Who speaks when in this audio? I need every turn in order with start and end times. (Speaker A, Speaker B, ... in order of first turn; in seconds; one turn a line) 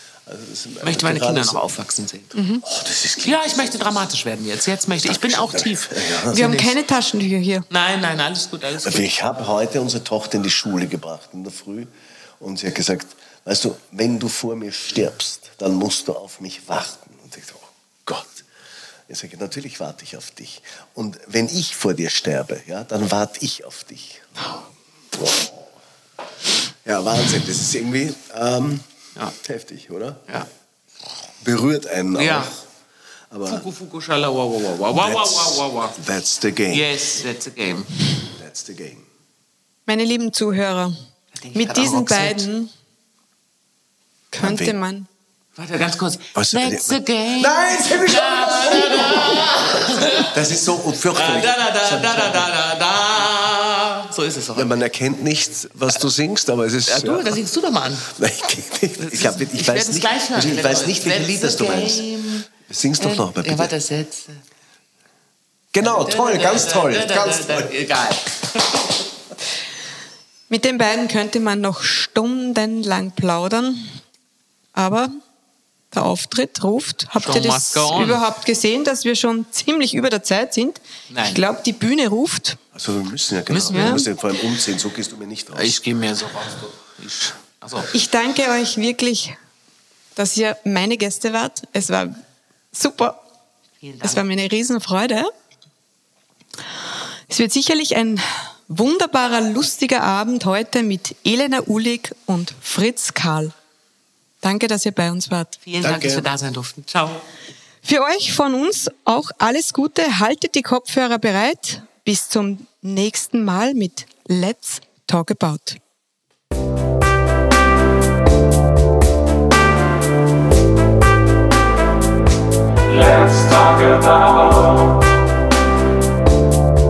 Speaker A: 0.2-1.7
Speaker B: 0.8-2.3
Speaker C: 2.3-2.6
Speaker A: 2.6-4.0
Speaker B: 3.2-6.8
Speaker A: 4.9-6.5
Speaker C: 6.3-7.7
Speaker B: 7.7-9.1
Speaker A: 8.8-18.4
Speaker A: 19.1-24.5
Speaker A: 25.1-25.7
Speaker A: 26.8-28.9
Speaker A: 29.4-30.2
Speaker A: 31.4-32.6
Speaker B: 32.1-32.5
Speaker A: 33.3-33.6
Speaker B: 33.5-36.0
Speaker A: 34.9-36.9
Speaker B: 36.7-37.9
Speaker A: 38.3-39.0
Speaker C: 39.9-41.0
Speaker B: 41.3-42.5
Speaker C: 41.5-42.7
Speaker C: 44.3-45.1
Speaker A: 44.4-44.7
Speaker B: 45.6-50.4
Speaker A: 46.3-52.5
Speaker B: 51.1-54.8
Speaker A: 54.5-57.4
Speaker B: 56.9-58.1
Speaker A: 58.1-62.0
Speaker B: 59.0-64.4
Speaker A: 62.6-63.7
Speaker A: 65.7-67.7
Speaker B: 65.8-69.0
Speaker C: 70.5-74.0
Speaker C: 74.7-75.1
Speaker C: 75.9-82.6
Speaker B: 77.2-78.2
Speaker B: 81.1-81.4
Speaker A: 82.7-85.8
Speaker B: 83.5-84.0
Speaker C: 83.7-84.0
Speaker B: 85.5-87.9
Speaker C: 87.9-89.3
Speaker C: 90.2-92.1
Speaker C: 92.7-93.2
Speaker B: 93.8-94.2
Speaker C: 94.0-95.3
Speaker C: 97.3-103.5
Speaker C: 104.4-105.6
Speaker B: 105.7-107.2
Speaker A: 105.8-106.3
Speaker C: 107.8-115.8
Speaker B: 122.9-125.0